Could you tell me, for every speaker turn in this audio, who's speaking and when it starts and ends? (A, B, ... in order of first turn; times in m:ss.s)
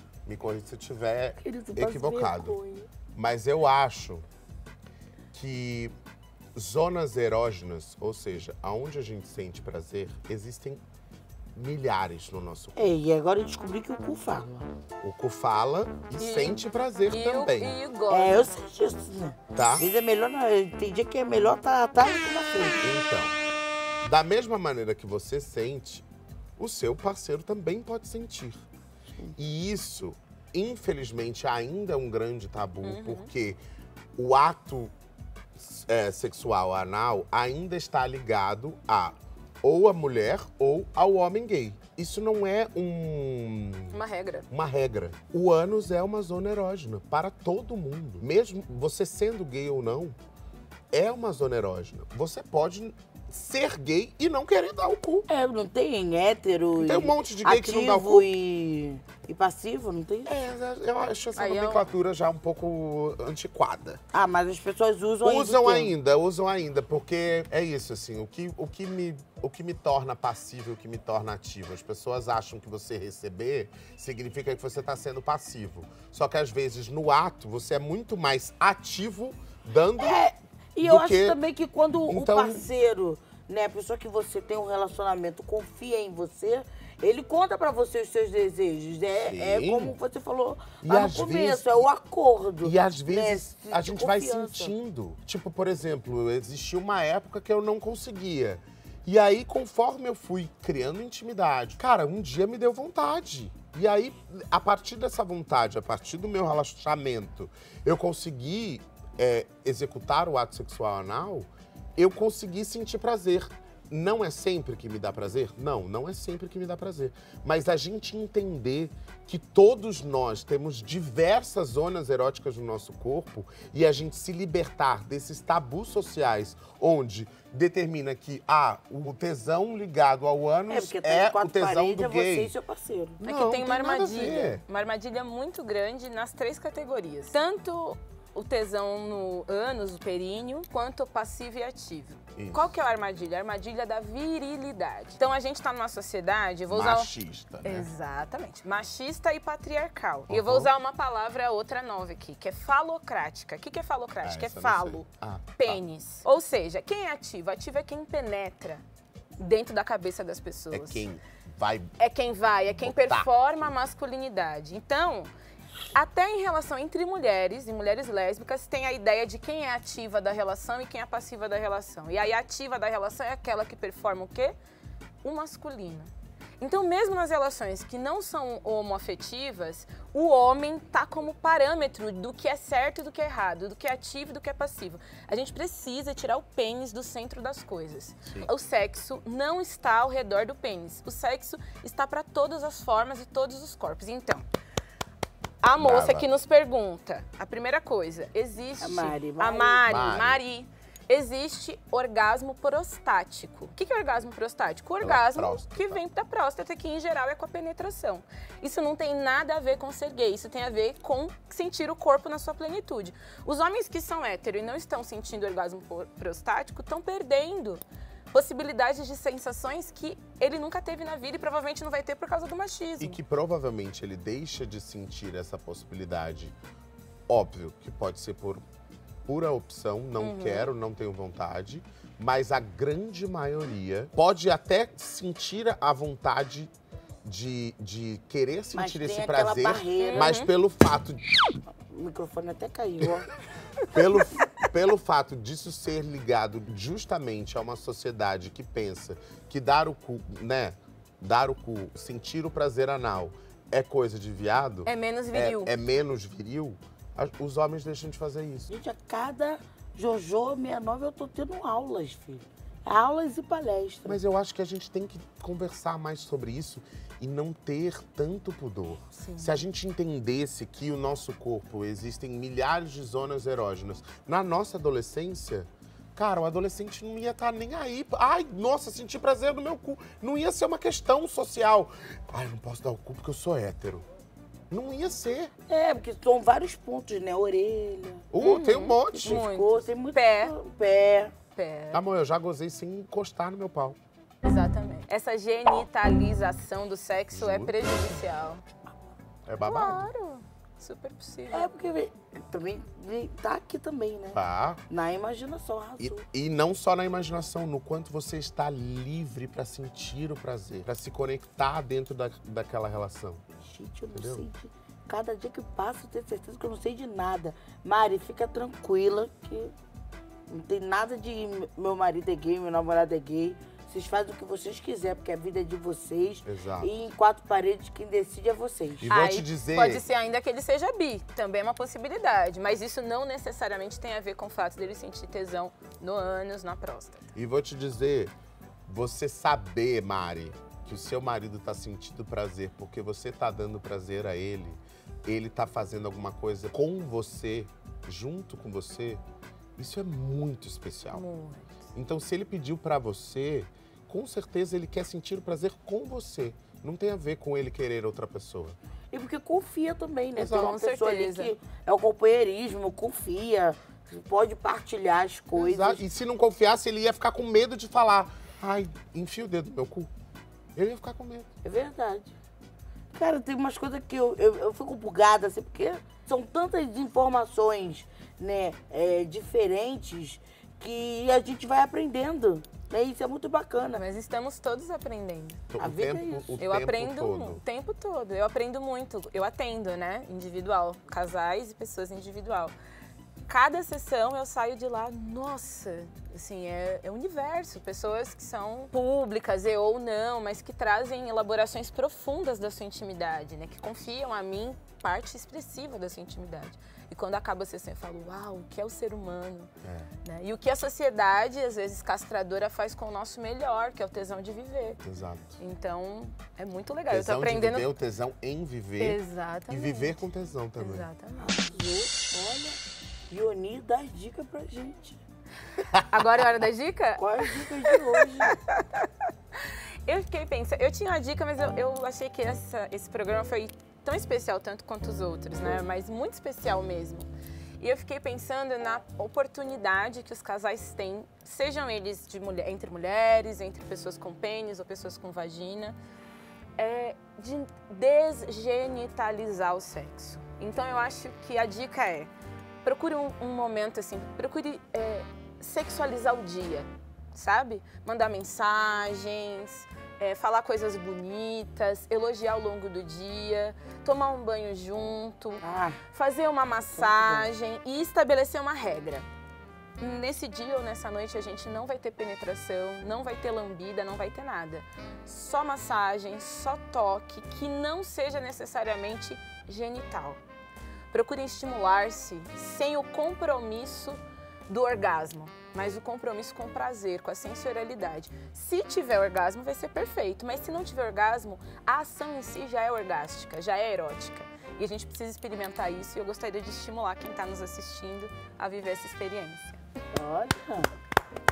0:00.2-0:02.6 A
0:01.4-0:02.9 B
0:03.1-0:04.2 A
0:05.3-0:05.9 A
0:06.5-0:10.8 A
0:11.5-0:12.9 A
0:12.7-0:14.7 B
0:15.0-0:17.8 A
0:16.2-0:18.5 C
0:18.1-0:22.8 B
0:19.5-0:19.9 A
0:22.8-0:23.3 A
0:24.0-0:26.0 A
0:26.6-0:28.6 A
0:29.4-0:33.6 A
0:32.8-0:33.3 C
0:34.2-0:34.9 A
0:35.6-0:44.0 A
0:43.9-0:44.5 C
0:44.5-0:50.1 A
0:50.9-0:55.3 A
0:55.3-1:00.4 B
0:56.8-0:58.3 A
1:00.2-1:04.0 A
1:01.3-1:01.9 C
1:04.1-1:05.9 B
1:05.2-1:20.2 A
1:20.0-1:34.7 B
1:20.8-1:21.4 A
1:22.1-1:22.6 A
1:29.2-1:30.0 A
1:30.8-1:31.8 A
1:32.6-2:12.5 A
2:10.7-2:13.2 B
2:13.2-2:14.6 A
2:13.2-2:27.1 C
2:22.4-2:22.7 A
2:26.7-2:27.9 A
2:27.6-2:35.0 C
2:30.3-2:30.7 A
2:34.2-2:35.8 A
2:35.6-2:38.8 C
2:39.4-2:41.0 C
2:40.7-2:41.9 A
2:42.0-2:45.3 C
2:42.7-2:43.3 A
2:45.9-2:54.6 C
2:55.2-3:14.4 C
3:08.2-3:08.5 A
3:15.6-3:37.8 C
3:15.8-3:16.3 A
3:18.8-3:19.8 B
3:19.8-3:20.4 A
3:25.0-3:26.0 A
3:38.3-3:43.2 C
3:43.0-3:46.6 A
3:47.3-3:48.6 A
3:49.2-3:56.7 A
3:50.2-3:50.7 C
3:57.2-4:01.2 A
3:58.7-4:00.4 B
4:00.0-4:00.5 C
4:01.8-4:03.3 B
4:03.8-4:18.7 A
4:14.8-4:15.7 C
4:18.7-4:24.2 B
4:24.0-4:44.0 A
4:29.1-4:29.6 C
4:44.7-4:45.5 A
4:45.7-4:48.3 B
4:48.3-4:49.4 A
4:48.4-4:50.5 C
4:49.2-4:51.3 B
4:51.6-4:52.0 C
4:51.9-4:54.0 A
4:54.4-4:58.6 C
4:57.3-4:58.2 A
4:59.4-5:00.1 A
4:59.6-5:01.7 C
5:01.5-5:06.2 B
5:04.3-5:04.8 A
5:06.0-5:13.4 A
5:13.6-5:19.7 B
5:14.1-5:14.4 A
5:20.5-5:29.1 B
5:26.4-5:26.9 A
5:29.0-5:30.0 A
5:29.1-5:37.2 C
5:37.3-5:38.3 A
5:38.9-5:49.2 A
5:49.8-5:51.2 A
5:51.1-5:51.9 C
5:51.9-5:58.8 A
5:59.1-6:06.0 B
6:00.4-6:00.8 A
6:00.4-6:01.5 C
6:05.6-6:10.1 A
6:10.7-6:11.5 A
6:11.6-6:12.3 B
6:13.1-6:24.0 B
6:23.9-6:25.6 C
6:25.7-6:27.6 A
6:25.8-6:26.6 B
6:26.6-6:32.7 C
6:33.5-6:49.7 C
6:49.8-6:50.1 A
6:50.2-6:55.0 C
6:55.0-6:55.6 A
6:55.6-6:57.9 C
6:57.1-7:01.1 A
6:59.0-7:00.2 C
7:00.8-7:01.5 C
7:01.4-7:05.2 B
7:06.0-7:26.0 C
7:07.2-7:08.6 B
7:26.8-7:32.3 C
7:32.8-7:45.6 C
7:45.6-7:46.0 B
7:46.1-7:49.3 C
7:47.0-7:47.5 B
7:50.0-8:00.4 C
8:01.1-8:19.8 C
8:20.1-8:20.9 B